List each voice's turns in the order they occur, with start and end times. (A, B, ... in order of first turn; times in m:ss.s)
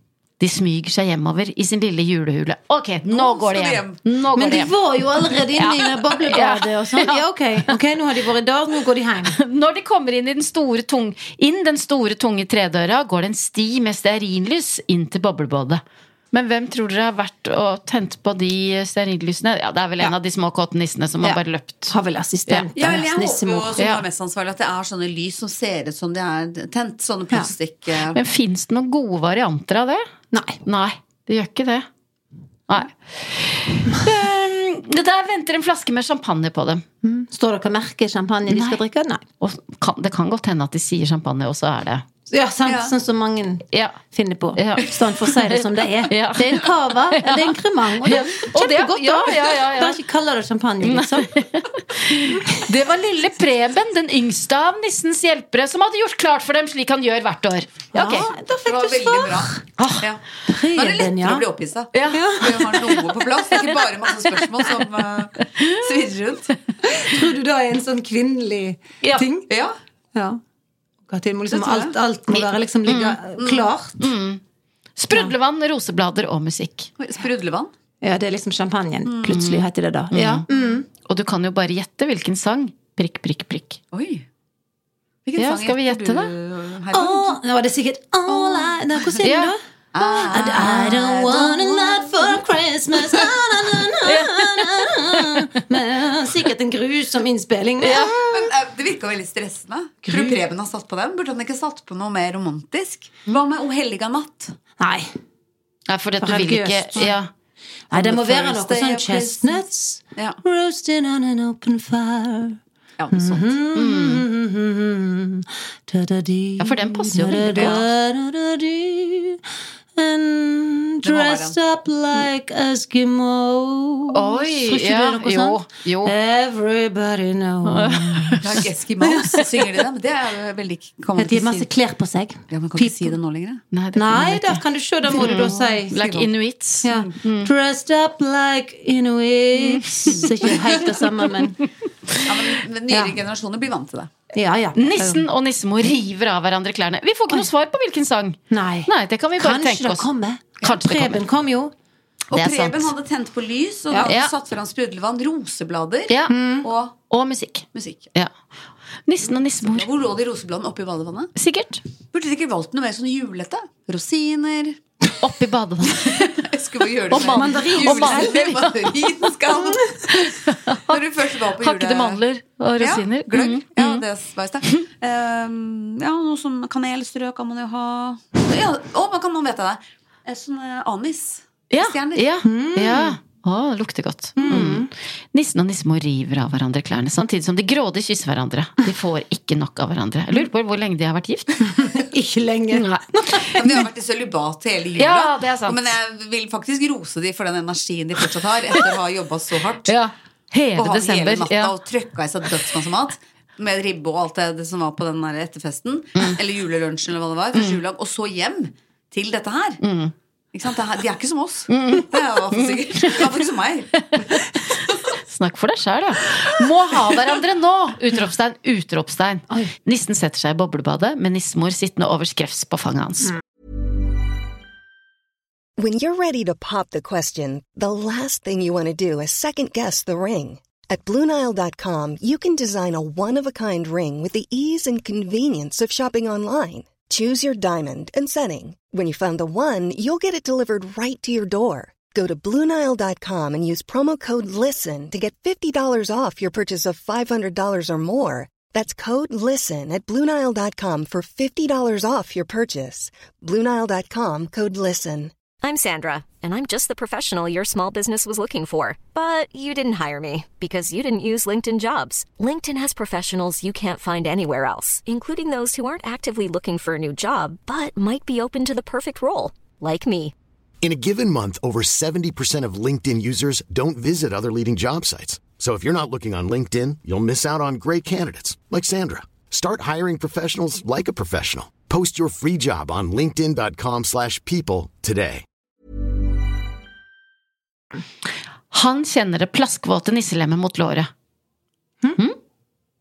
0:00.4-0:04.7 A
0:03.1-0:04.0 B
0:04.3-0:09.4 C
0:05.6-0:07.2 A
0:09.3-0:21.9 A
0:21.2-0:23.8 C
0:22.8-0:28.2 B
0:23.8-0:24.0 A
0:28.1-0:30.0 A
0:30.3-0:30.6 C
0:30.6-0:31.9 A
0:32.7-0:36.8 A
0:37.0-0:39.2 C
0:38.5-0:38.8 A
0:39.4-0:42.0 A
0:42.3-0:51.3 C
0:42.6-0:42.9 B
0:43.7-0:44.0 A
0:44.5-0:50.0 A
0:50.8-0:58.3 A
0:57.9-0:59.6 C
0:58.6-1:00.2 B
0:59.8-1:00.1 A
1:00.5-1:01.4 C
1:00.7-1:06.5 B
1:01.9-1:03.0 A
1:02.1-1:02.5 C
1:06.8-1:09.5 C
1:09.5-1:09.7 B
1:10.1-1:10.4 C
1:11.1-1:14.1 C
1:11.5-1:11.9 B
1:12.3-1:13.2 A
1:13.4-1:13.7 B
1:14.0-1:14.4 A
1:15.0-1:16.9 A
1:17.0-1:17.7 B
1:18.0-1:20.8 C
1:19.0-1:19.4 B
1:19.2-1:20.4 A
1:21.0-1:23.8 A
1:23.9-1:24.2 B
1:25.2-1:27.4 B
1:25.4-1:26.3 A
1:26.9-1:29.6 C
1:28.3-1:28.7 B
1:29.2-1:29.5 A
1:29.9-1:32.4 B
1:30.3-1:38.3 C
1:34.0-1:35.3 A
1:37.8-1:38.2 A
1:38.3-1:44.6 B
1:40.0-1:40.4 C
1:44.8-1:45.1 C
1:45.9-1:47.3 A
1:46.2-1:47.1 C
1:47.9-1:52.6 C
1:47.9-1:49.6 B
1:50.1-1:50.4 B
1:53.0-1:53.5 B
1:53.1-1:59.4 C
1:53.7-1:54.2 A
1:56.6-1:57.8 A
1:57.5-1:57.8 B
1:59.9-2:08.4 C
2:01.0-2:01.6 B
2:04.1-2:06.1 A
2:07.6-2:08.7 A
2:08.4-2:11.7 B
2:11.2-2:13.2 C
2:12.5-2:13.6 B
2:13.7-2:17.5 A
2:13.9-2:16.0 C
2:15.2-2:16.3 B
2:16.8-2:21.6 C
2:19.6-2:20.3 A
2:22.2-2:24.1 B
2:22.9-2:23.2 C
2:24.3-2:25.2 C
2:24.7-2:30.1 A
2:28.5-2:31.7 C
2:30.6-2:31.2 A
2:32.3-2:37.0 B
2:32.3-2:32.9 A
2:34.0-2:34.3 A
2:36.1-2:36.4 A
2:36.3-2:36.7 C
2:37.1-2:38.3 A
2:37.7-2:38.1 B
2:39.1-2:39.9 A
2:39.6-2:41.3 B
2:41.4-2:41.8 A
2:42.1-2:44.8 B
2:45.2-2:46.3 A
2:46.0-2:50.4 B
2:47.1-2:49.1 A
2:47.2-2:48.4 C
2:50.1-2:51.0 A
2:50.9-2:52.2 B
2:51.6-2:54.0 A
2:52.8-3:02.3 B
3:01.7-3:11.9 A
3:02.4-3:03.2 C
3:04.4-3:04.9 C
3:11.7-3:13.6 C
3:12.7-3:13.6 A
3:13.5-3:19.9 B
3:15.0-3:16.0 A
3:19.9-3:21.7 A
3:20.8-3:29.8 B
3:27.5-3:27.8 A
3:29.8-3:30.1 A
3:30.5-3:35.0 B
3:31.7-3:33.4 A
3:35.2-3:43.3 A
3:45.8-4:15.3 D
4:15.6-4:30.3 E
4:30.8-4:45.4 F
4:48.7-4:51.1 A